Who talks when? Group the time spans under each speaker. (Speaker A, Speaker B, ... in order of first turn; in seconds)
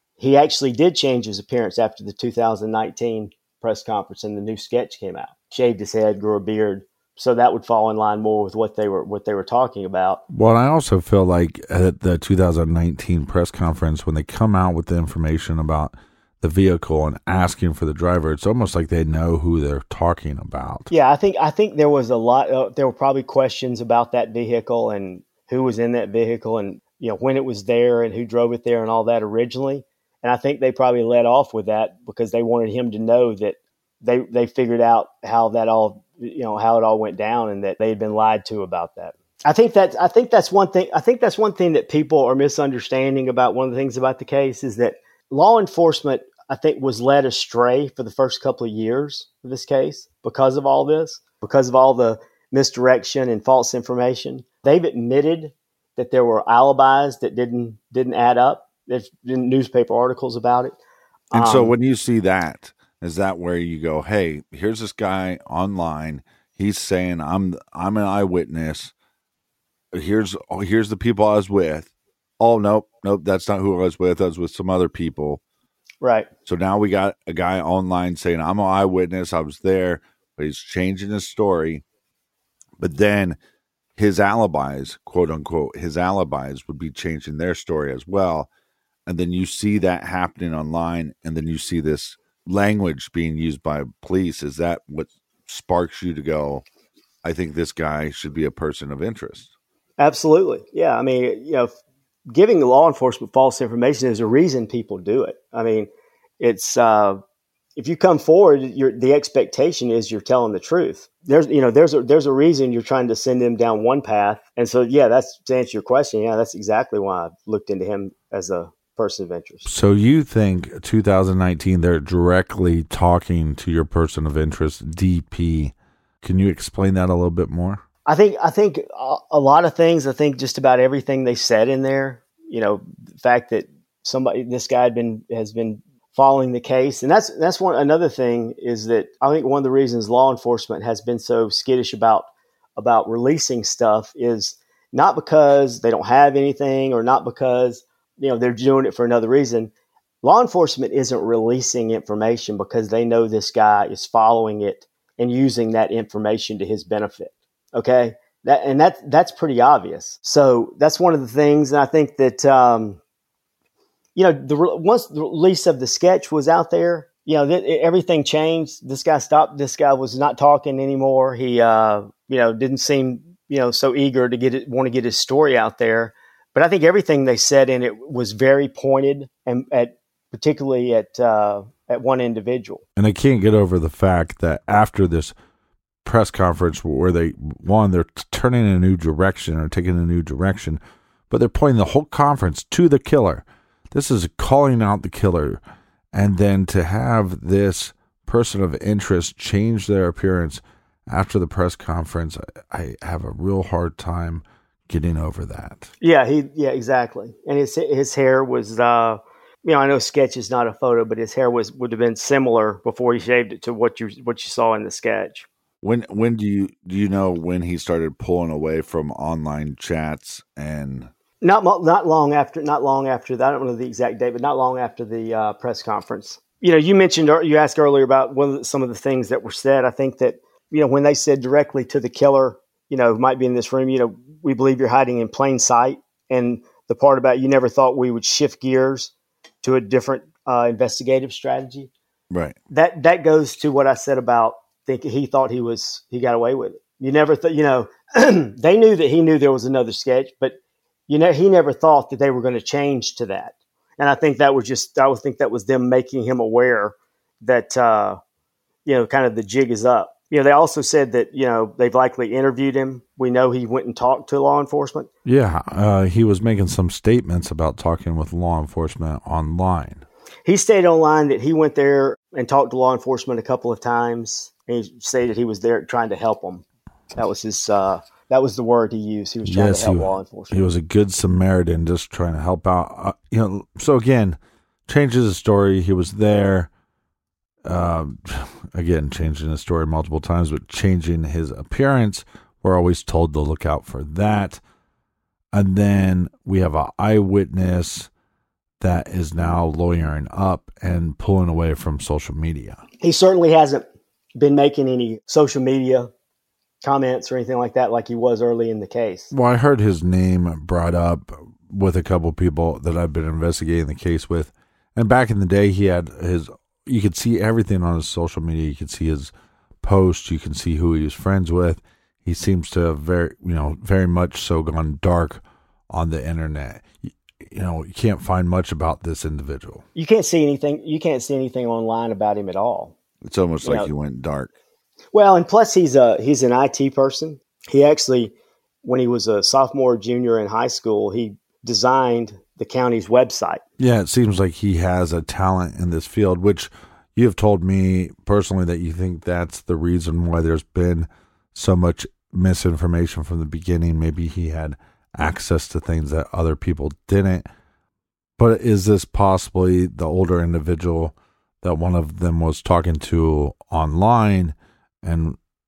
Speaker A: 0.2-10.2, 20.9-60.8, 61.3-61.7, 76.0-76.3, 100.0-101.7, 102.3-107.2, 107.8-119.7, 128.1-149.7, 150.2-163.0, 164.2-182.8, 206.0-215.4, 221.4-239.1, 239.6-241.9, 242.7-258.2, 258.9-265.1, 270.4-276.6, 277.1-280.7, 303.0-306.1, 306.8-309.3, 329.9-332.9, 333.6-333.9, 335.1-343.6
Speaker B: 10.3-20.9, 61.3-68.9, 69.9-75.4, 76.5-81.8, 82.8-83.4, 84.0-88.5, 89.0-96.6, 97.2-99.5, 119.7-127.8, 182.9-185.3, 186.0-195.6, 196.1-205.9, 215.8-221.1, 242.3-242.6, 265.2-270.1, 279.4-286.7, 287.6-294.6, 295.5-298.1, 298.8-302.8, 309.3-329.8, 333.2-334.5, 343.8-357.5, 358.4-365.4